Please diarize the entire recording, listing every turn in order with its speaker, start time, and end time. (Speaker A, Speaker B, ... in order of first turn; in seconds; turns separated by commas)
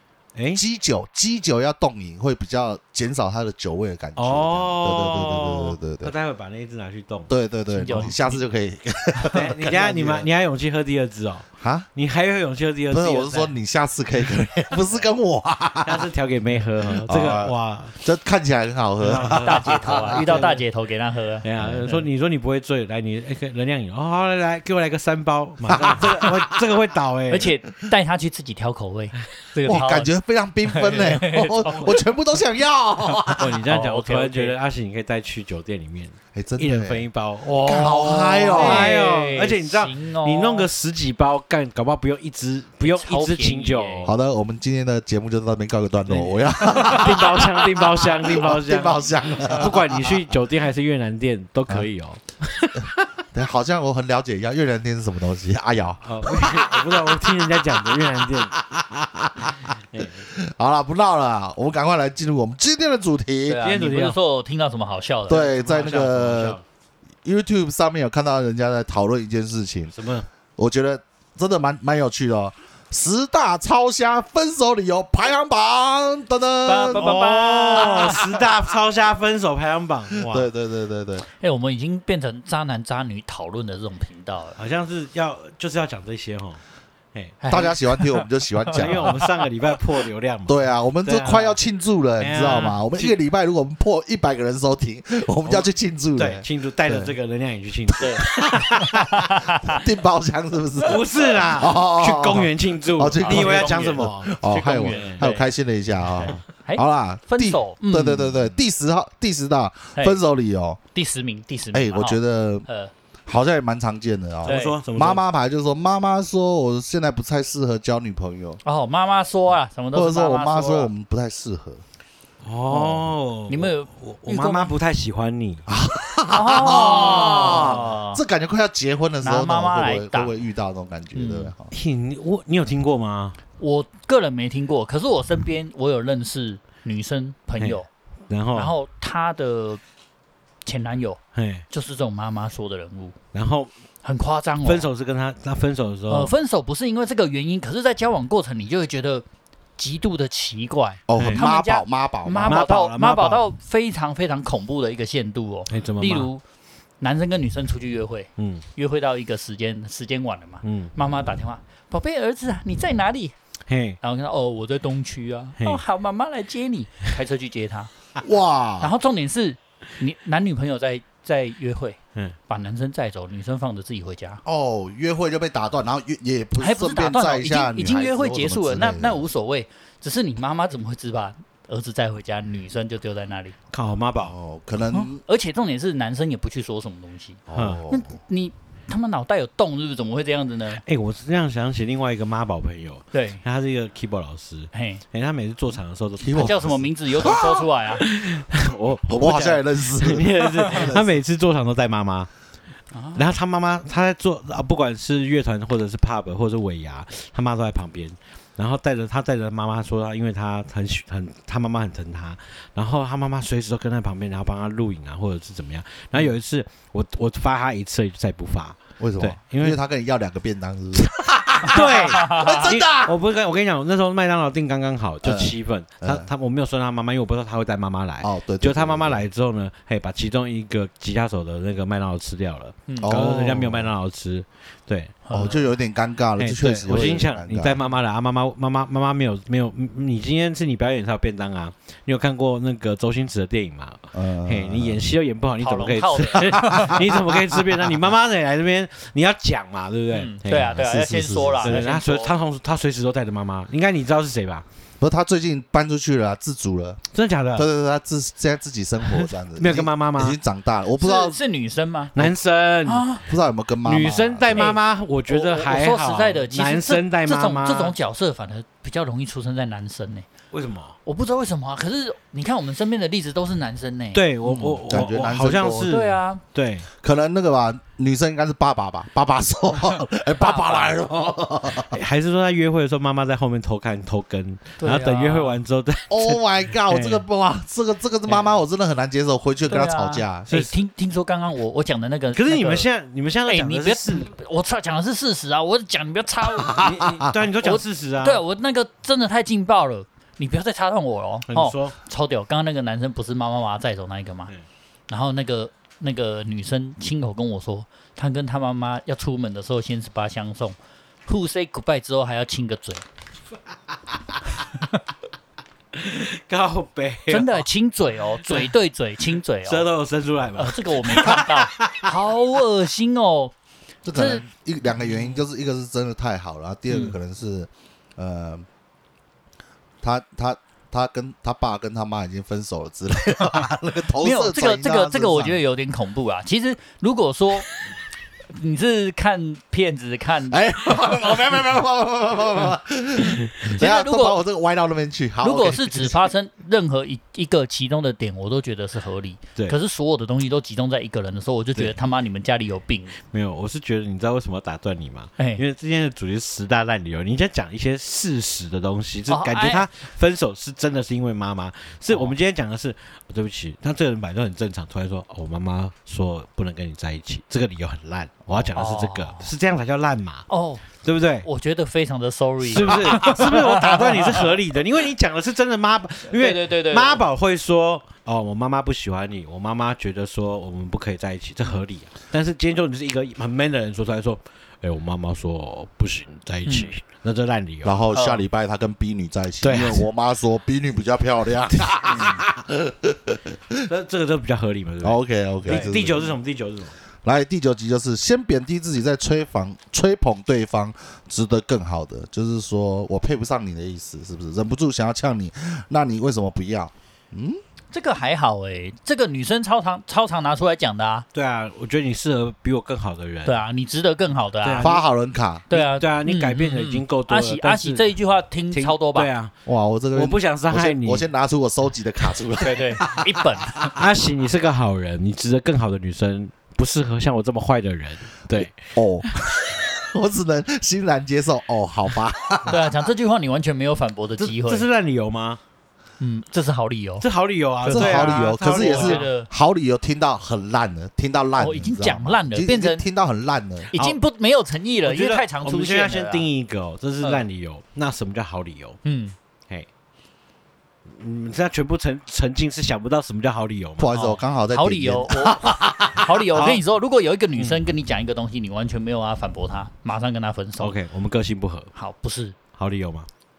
Speaker A: 0.3-0.6, Speaker B: 0.5-6.1, Speaker A: 4.2-7.3, Speaker B: 7.3-10.3, Speaker C: 7.7-8.4, Speaker A: 9.3-13.5, Speaker B: 11.6-11.9, Speaker B: 12.9-16.1, Speaker A: 15.8-18.0, Speaker B: 16.9-20.3, Speaker A: 19.0-20.6, Speaker C: 19.3-22.0, Speaker A: 21.4-27.5, Speaker B: 21.6-21.9, Speaker B: 25.7-26.6, Speaker C: 27.3-30.1, Speaker B: 29.7-33.6, Speaker C: 30.7-31.9, Speaker C: 33.1-34.5, Speaker A: 33.4-44.1, Speaker B: 36.4-38.9, Speaker C: 38.5-40.7, Speaker C: 42.8-44.1, Speaker B: 44.0-50.3, Speaker A: 46.1-53.1, Speaker C: 46.6-47.2, Speaker B: 53.3-63.6, Speaker A: 56.0-58.6, Speaker A: 59.7-60.2, Speaker C: 63.5-65.9, Speaker A: 63.6-64.2, Speaker B: 65.3-66.6, Speaker A: 65.3-66.6, Speaker B: 67.2-70.0, Speaker A: 69.9-70.3, Speaker B: 70.6-77.1, Speaker C: 76.7-78.2, Speaker A: 76.9-80.5, Speaker B: 77.8-78.4, Speaker B: 80.2-81.3, Speaker C: 81.4-84.6, Speaker A: 84.6-86.6, Speaker A: 87.1-87.7, Speaker C: 87.4-89.3, Speaker B: 87.5-89.2, Speaker A: 88.7-91.6, Speaker B: 90.5-97.1, Speaker A: 92.2-93.2, Speaker A: 95.5-99.2, Speaker C: 98.0-99.8, Speaker B: 98.1-98.8, Speaker B: 99.6-110.8, Speaker A: 100.8-104.3, Speaker C: 103.2-105.5, Speaker A: 104.9-105.2, Speaker C: 106.0-108.5, Speaker C: 110.9-112.9, Speaker B: 111.7-112.7, Speaker B: 113.3-118.6, Speaker A: 114.4-115.2, Speaker C: 114.5-114.8, Speaker C: 118.6-120.9, Speaker B: 119.9-121.8, Speaker A: 122.4-125.7, Speaker C: 122.7-124.8, Speaker B: 125.7-131.7, Speaker C: 126.3-128.2, Speaker A: 127.3-127.9, Speaker C: 129.2-130.4, Speaker C: 131.2-131.5, Speaker A: 131.7-133.4, Speaker C: 133.6-137.9, Speaker A: 137.6-138.7, Speaker C: 138.6-139.8, Speaker C: 140.7-143.2, Speaker A: 141.3-141.7, Speaker A: 143.3-143.7, Speaker C: 144.0-144.9, Speaker A: 144.6-146.3, Speaker C: 146.1-149.2, Speaker C: 149.8-156.4, Speaker B: 151.1-152.6, Speaker A: 151.2-151.4, Speaker A: 152.4-153.5, Speaker A: 155.7-156.3, Speaker C: 157.0-163.3, Speaker A: 158.4-158.6, Speaker A: 160.6-160.9, Speaker A: 163.7-164.0, Speaker C: 164.0-167.9, Speaker B: 168.2-168.9, Speaker C: 168.8-172.0, Speaker C: 172.5-174.4, Speaker B: 174.4-179.3, Speaker C: 176.6-183.6, Speaker A: 183.7-184.3, Speaker B: 184.2-185.2, Speaker C: 184.9-190.8, Speaker B: 187.5-188.1, Speaker A: 187.5-187.8, Speaker A: 190.7-197.4, Speaker C: 193.1-193.4, Speaker C: 194.7-195.0, Speaker B: 196.2-197.7, Speaker C: 196.4-198.0, Speaker A: 197.9-202.3, Speaker B: 199.1-201.2, Speaker C: 200.6-200.9, Speaker C: 202.9-203.3, Speaker A: 203.2-219.8, Speaker B: 219.0-223.2, Speaker A: 221.6-235.2, Speaker C: 221.6-222.7, Speaker B: 225.2-226.3, Speaker B: 228.2-229.2, Speaker C: 232.9-233.2, Speaker B: 233.0-233.9, Speaker C: 235.2-235.6, Speaker B: 235.3-237.8, Speaker A: 236.4-250.8, Speaker C: 236.9-237.2, Speaker B: 244.1-245.0, Speaker C: 245.6-247.0, Speaker B: 246.7-247.8, Speaker C: 250.1-252.3, Speaker B: 250.6-251.9, Speaker A: 251.6-254.7, Speaker B: 255.0-257.0, Speaker A: 257.1-257.7, Speaker B: 257.6-261.4, Speaker A: 259.1-260.4, Speaker C: 261.0-262.1, Speaker A: 262.1-263.1, Speaker C: 262.9-263.2, Speaker B: 263.2-264.7, Speaker A: 263.9-267.9, Speaker C: 264.5-270.3, Speaker A: 270.5-271.0, Speaker C: 271.1-274.8, Speaker A: 274.1-276.9, Speaker B: 274.9-276.0, Speaker C: 275.9-276.4, Speaker B: 277.0-282.0, Speaker C: 280.4-280.9, Speaker A: 281.9-287.2, Speaker C: 284.8-285.6, Speaker B: 286.1-290.5, Speaker C: 289.7-292.9, Speaker A: 290.5-290.7, Speaker A: 292.3-294.3, Speaker C: 293.5-296.9, Speaker B: 296.7-297.3, Speaker A: 296.8-298.4, Speaker C: 297.6-304.5, Speaker A: 301.5-302.0, Speaker C: 305.1-313.1, Speaker A: 315.9-317.6, Speaker C: 317.3-319.9, Speaker A: 318.5-318.7, Speaker A: 319.6-322.1, Speaker C: 320.6-323.6, Speaker B: 324.1-328.7, Speaker C: 324.1-324.4, Speaker C: 326.9-327.1, Speaker B: 330.0-335.6, Speaker C: 334.2-337.7, Speaker C: 338.5-340.6, Speaker B: 340.5-346.2, Speaker C: 343.8-344.4, Speaker C: 345.4-353.2, Speaker A: 353.3-371.5, Speaker C: 359.3-359.9, Speaker C: 362.1-362.3, Speaker C: 368.8-369.5, Speaker C: 370.5-370.9, Speaker C: 371.4-374.5, Speaker A: 372.6-388.1, Speaker B: 372.9-373.8, Speaker C: 376.3-377.3, Speaker C: 386.7-386.9, Speaker B: 387.8-393.9, Speaker C: 388.1-388.4, Speaker A: 389.6-390.1, Speaker C: 392.1-392.4, Speaker A: 393.9-396.9, Speaker B: 395.0-396.4, Speaker C: 395.7-396.0, Speaker B: 397.2-407.6, Speaker C: 407.9-411.3, Speaker A: 411.3-413.6, Speaker C: 413.4-414.9, Speaker A: 414.6-415.0, Speaker B: 414.8-415.6, Speaker C: 415.7-419.3, Speaker A: 415.7-418.1, Speaker A: 418.7-419.5, Speaker B: 419.7-423.9, Speaker A: 420.1-421.3, Speaker C: 422.6-423.9, Speaker A: 423.8-428.8, Speaker B: 428.5-432.9, Speaker C: 432.7-434.9, Speaker A: 434.4-435.6, Speaker C: 436.2-437.3, Speaker A: 437.2-439.3, Speaker C: 437.8-439.5, Speaker B: 437.9-443.9, Speaker C: 441.6-443.0, Speaker C: 443.9-446.5, Speaker A: 445.0-449.0, Speaker C: 449.0-449.4, Speaker A: 451.1-454.1, Speaker B: 454.0-456.3, Speaker C: 454.1-461.0, Speaker A: 456.6-456.8, Speaker A: 460.8-461.9, Speaker C: 461.9-462.6, Speaker A: 462.8-463.3